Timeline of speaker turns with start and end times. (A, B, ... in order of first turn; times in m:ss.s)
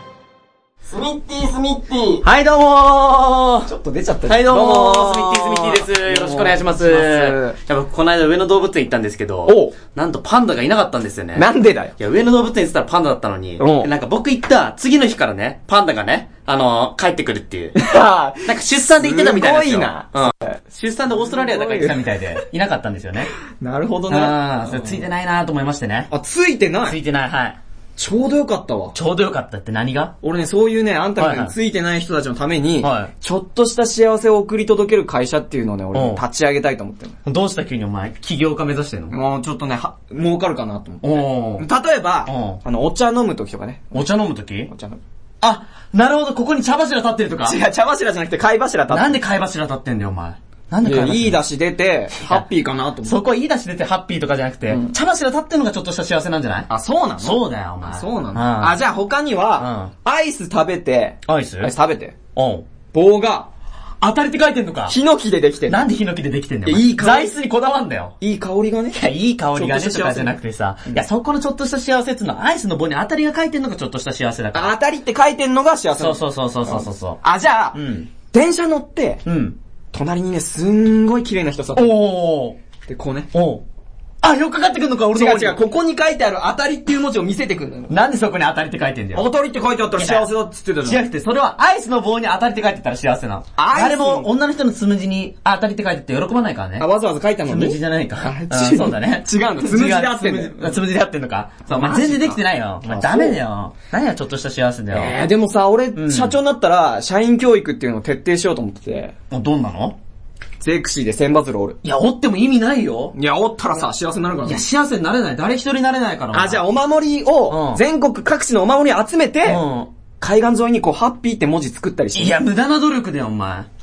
0:00.9-0:02.2 A
0:02.2-0:03.7 B
0:03.7-0:07.6 A
0:04.3-0:11.5 B
0:09.5-0:09.8 A
0:11.4-0:11.9 A
0:12.0-0:17.8 B
0:13.6-0:13.9 A
0:17.8-0:20.3 A
0:18.4-0:23.3 B
0:21.1-0:22.0 A
0:23.6-0:25.1 A
0:24.1-0:26.1 B
0:26.1-0:27.0 A
0:26.8-0:27.6 B
0:28.0-0:29.0 A
0:28.9-0:30.2 B
0:30.2-0:37.2 A
0:31.2-0:31.6 B
0:32.8-0:33.1 B
0:35.9-0:36.2 B
0:37.2-0:39.2 B
0:39.1-0:45.0 A
0:41.0-0:41.7 B
0:42.3-0:42.6 B
0:43.9-0:44.7 B
0:45.4-0:47.6 B
0:47.4-0:49.2 A
0:48.9-0:51.4 B
0:50.8-0:53.3 A
0:52.1-0:52.5 B
0:53.0-0:56.7 B
0:54.7-0:55.0 A
0:56.7-1:02.2 A
0:57.2-0:58.8 B
0:59.6-0:59.9 B
1:01.2-1:01.7 B
1:02.3-1:02.7 B
1:02.9-1:03.5 A
1:04.0-1:05.0 B
1:04.9-1:05.8 A
1:05.7-1:08.1 B
1:06.6-1:07.4 A
1:08.2-1:10.4 A
1:08.9-1:14.8 B
1:14.5-1:17.8 A
1:16.0-1:17.2 B
1:17.7-1:18.1 B
1:18.3-1:19.2 A
1:19.2-1:19.6 B
1:19.9-1:22.0 A
1:21.7-1:22.6 B
1:22.9-1:23.3 A
1:23.3-1:23.6 B
1:24.2-1:25.6 B
1:25.1-1:28.0 A
1:27.9-1:29.3 B
1:29.1-1:31.1 A
1:30.0-1:30.3 B
1:30.8-1:36.9 B
1:33.6-1:34.3 A
1:36.8-1:40.8 A
1:37.5-1:45.2 B
1:41.7-1:43.4 A
1:44.9-1:49.1 A
1:46.0-1:46.4 B
1:49.3-1:50.0 B
1:50.6-1:51.8 A
1:51.8-1:53.2 B
1:53.1-1:54.6 A
1:54.4-1:56.6 B
1:56.3-1:59.6 A
1:57.5-1:57.8 B
1:59.4-1:59.9 B
2:00.2-2:02.4 A
2:02.1-2:03.7 B